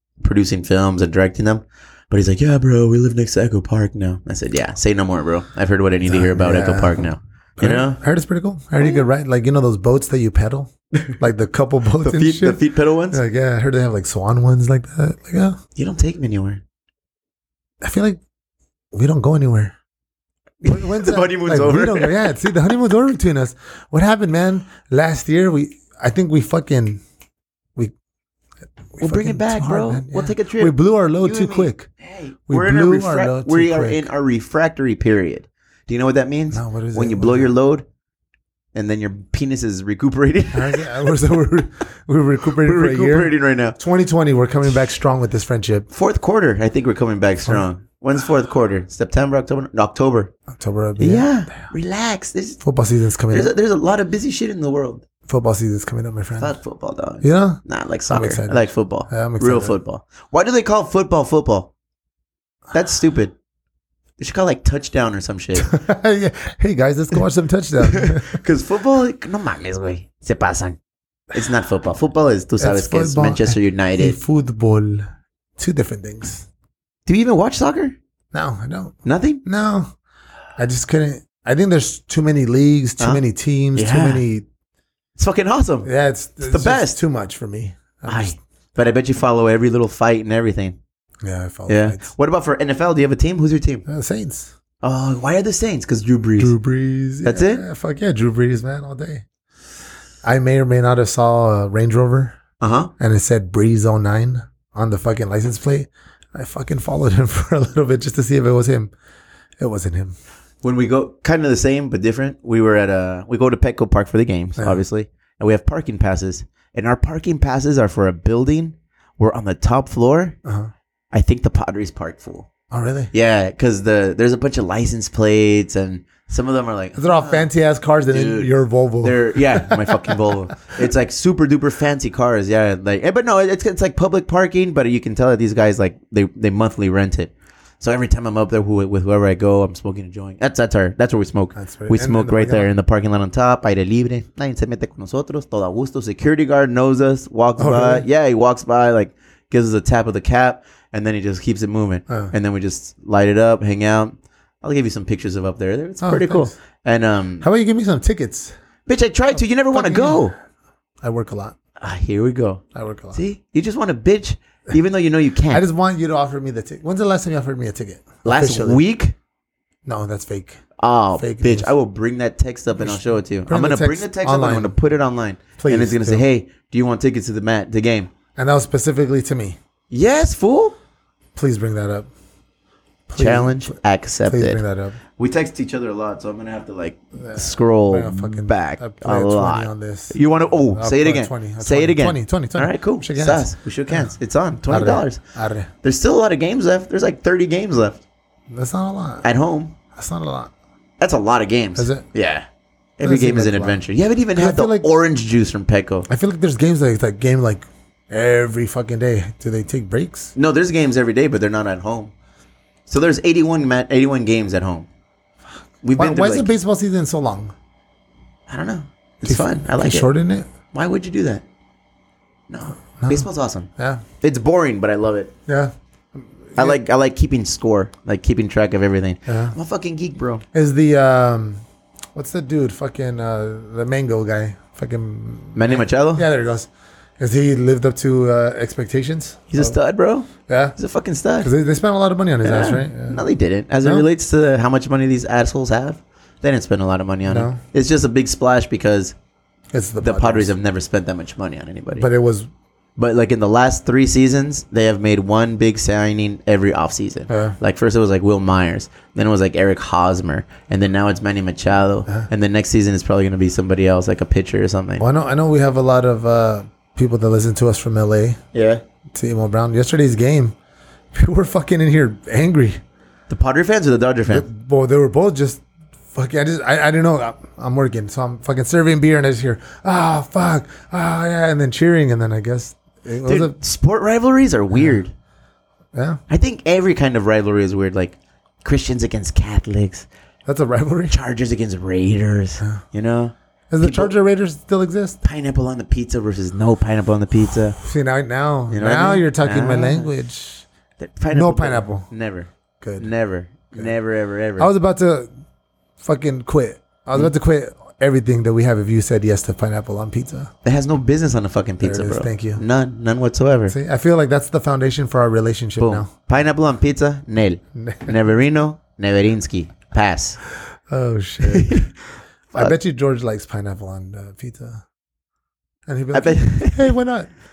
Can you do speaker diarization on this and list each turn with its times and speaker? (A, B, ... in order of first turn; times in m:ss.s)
0:00.2-0:08.0 A
0:06.1-0:15.6 B
0:12.0-0:13.2 A
0:15.8-0:16.6 A
0:17.8-0:18.2 B
0:18.9-0:19.7 B
0:20.6-0:22.3 A
0:20.6-0:27.0 B
0:28.9-0:31.9 B
0:29.0-0:37.8 A
0:32.5-0:34.1 B
0:36.5-0:37.5 B
0:38.7-0:41.1 A
0:40.5-0:45.9 B
0:42.6-0:43.8 A
0:45.9-0:50.3 A
0:50.5-0:51.7 B
0:51.0-0:52.6 A
0:52.6-0:53.5 B
0:53.3-0:55.0 A
0:55.3-0:56.5 B
0:56.4-1:01.7 A
0:57.2-0:59.8 B
1:02.7-1:03.3 A
1:04.2-1:05.7 A
1:05.6-1:08.4 B
1:07.8-1:10.8 A
1:11.3-1:14.2 A
1:12.6-1:15.1 B
1:15.6-1:16.5 B
1:17.1-1:18.0 A
1:18.3-1:19.9 B
1:19.0-1:19.4 A
1:20.6-1:24.4 B
1:23.8-1:24.2 A
1:25.2-1:25.9 A
1:25.8-1:28.4 B
1:26.4-1:27.0 A
1:28.1-1:30.8 A
1:31.2-1:32.1 B
1:31.7-1:33.8 A
1:33.9-1:34.5 B
1:34.8-1:36.5 A
1:36.4-1:39.2 B
1:37.2-1:37.6 A
1:40.2-1:42.4 B
1:42.6-1:42.9 A
1:43.0-1:48.9 B
1:49.6-1:50.2 B
1:50.6-2:00.4 A
2:00.4-2:00.7 B
2:01.1-2:02.5 A
2:02.7-2:03.1 B
2:03.1-2:07.5 A
2:07.0-2:10.2 B
2:08.1-2:37.4 A
2:21.6-2:22.7 B
2:27.6-2:28.0 B
2:36.0-2:36.5 B
2:37.4-2:38.5 B
2:38.9-2:40.4 A
2:39.7-2:40.2 B
2:41.0-2:41.6 B
2:41.8-2:45.6 A
2:42.7-2:43.2 B
2:45.5-2:48.8 B
2:48.2-2:49.2 A
2:49.8-2:50.6 B
2:50.8-2:58.1 A
2:51.2-2:51.7 B
2:52.8-2:54.8 B
2:55.6-2:56.2 B
2:58.4-2:59.6 B
2:59.9-3:00.8 A
3:01.4-3:02.1 B
3:03.1-3:05.0 B
3:03.2-3:04.6 A
3:05.2-3:15.2 A
3:07.2-3:10.2 B
3:10.7-3:14.1 B
3:14.7-3:15.7 B
3:15.8-3:18.0 A
3:18.5-3:19.3 B
3:19.2-3:19.8 A
3:20.0-3:20.5 B
3:21.0-3:22.5 A
3:21.8-3:22.0 B
3:23.0-3:26.1 A
3:23.0-3:23.8 B
3:24.3-3:24.9 B
3:26.1-3:30.3 B
3:30.4-3:32.1 A
3:32.9-3:34.9 A
3:35.8-3:36.5 A
3:36.0-3:37.5 B
3:38.5-3:40.1 A
3:39.2-3:40.5 B
3:40.7-3:41.4 A
3:42.5-3:43.7 A
3:43.0-3:44.0 B
3:44.2-3:45.3 A
3:45.5-3:46.8 B
3:46.6-3:50.4 A
3:49.3-3:49.6 B
3:50.5-3:51.6 B
3:52.2-3:59.8 B
3:55.6-3:56.3 A
3:59.5-4:01.5 A
4:00.4-4:00.8 B
4:01.4-4:03.2 B
4:02.4-4:09.2 A
4:07.2-4:07.6 B
4:09.7-4:10.5 B
4:10.0-4:12.1 A
4:11.9-4:12.5 B
4:13.0-4:25.0 A
4:17.3-4:17.6 B
4:25.0-4:28.4 B
4:28.5-4:28.8 A
4:29.1-4:30.6 B
4:31.1-4:32.8 B
4:33.3-4:34.5 A
4:34.3-4:43.6 B
4:43.2-4:45.1 A
4:44.7-4:45.0 B
4:45.9-4:46.2 B
4:46.3-4:50.1 A
4:50.5-4:51.2 B
4:51.1-4:54.1 A
4:53.7-4:55.2 B
4:55.2-4:57.8 A
4:57.8-5:00.6 B
4:58.7-5:00.1 A
5:01.0-5:04.7 A
5:01.3-5:02.1 B
5:02.8-5:03.1 B
5:04.6-5:05.3 B
5:06.0-5:10.5 B
5:10.6-5:13.8 A
5:11.8-5:12.6 B
5:13.7-5:16.1 B
5:15.8-5:20.4 A
5:17.8-5:18.2 B
5:20.9-5:21.9 B
5:21.4-5:21.9 A
5:22.5-5:22.8 A
5:22.6-5:24.8 B
5:25.9-5:27.3 B
5:26.1-5:27.0 A